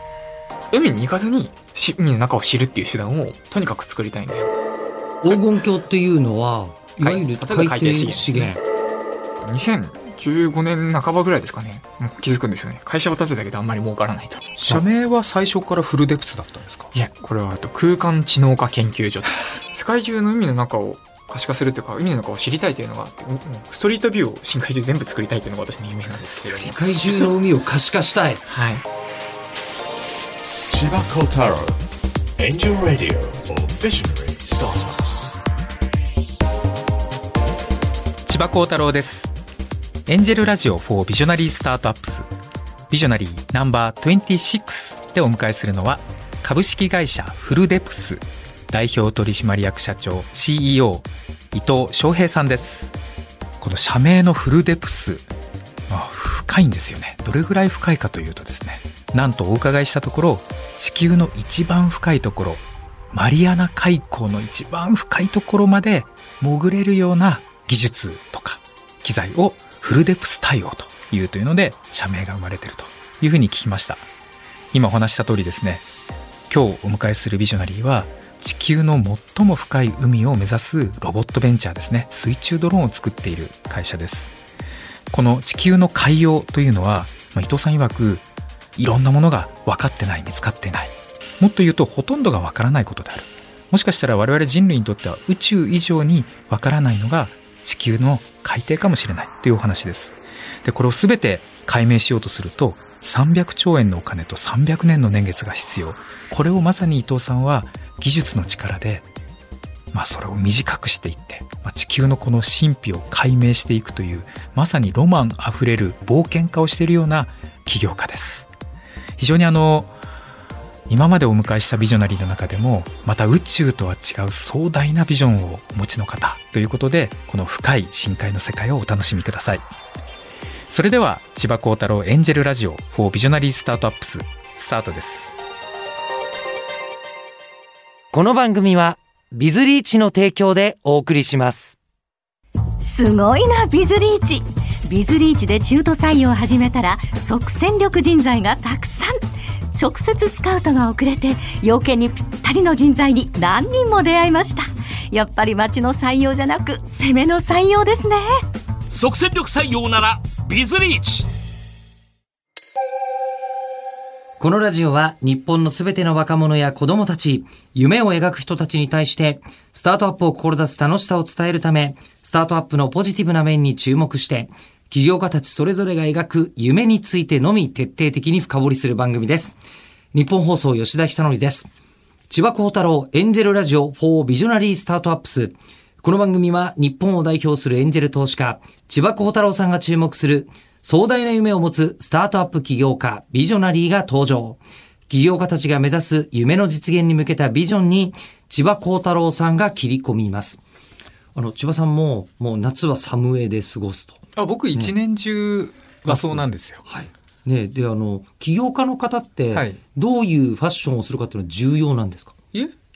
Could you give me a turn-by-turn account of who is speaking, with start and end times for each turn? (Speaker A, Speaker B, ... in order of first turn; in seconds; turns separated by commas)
Speaker A: 0.7-4.5, Speaker B: 5.2-8.6, Speaker A: 7.0-8.6, Speaker A: 9.4-14.5, Speaker C: 14.7-16.9, Speaker A: 16.9-26.8, Speaker B: 26.4-28.4, Speaker A: 28.4-28.8, Speaker D: 30.7-31.8, Speaker D: 32.4-35.4, Speaker C: 38.3-39.3, Speaker C: 40.0-42.3, Speaker C: 42.9-53.0, Speaker C: 53.6-55.3, Speaker C: 55.9-74.0, Speaker C: 74.7-75.9, Speaker C: 76.5-84.3, Speaker C: 85.1-88.2, Speaker C: 88.8-109.0, Speaker C: 109.9-118.5, Speaker C: 119.2-119.9, Speaker C: 120.9-129.6, Speaker C: 130.7-135.3, Speaker B: 138.1-141.8, Speaker E: 142.8-149.2, Speaker E: 149.7-158.3, Speaker F: 158.9-161.3, Speaker B: 164.4-179.5, Speaker B: 180.1-181.7, Speaker B: 182.3-200.6, Speaker B: 201.3-204.2, Speaker C: 204.4-206.8, Speaker B: 206.1-212.3, Speaker C: 209.5-209.8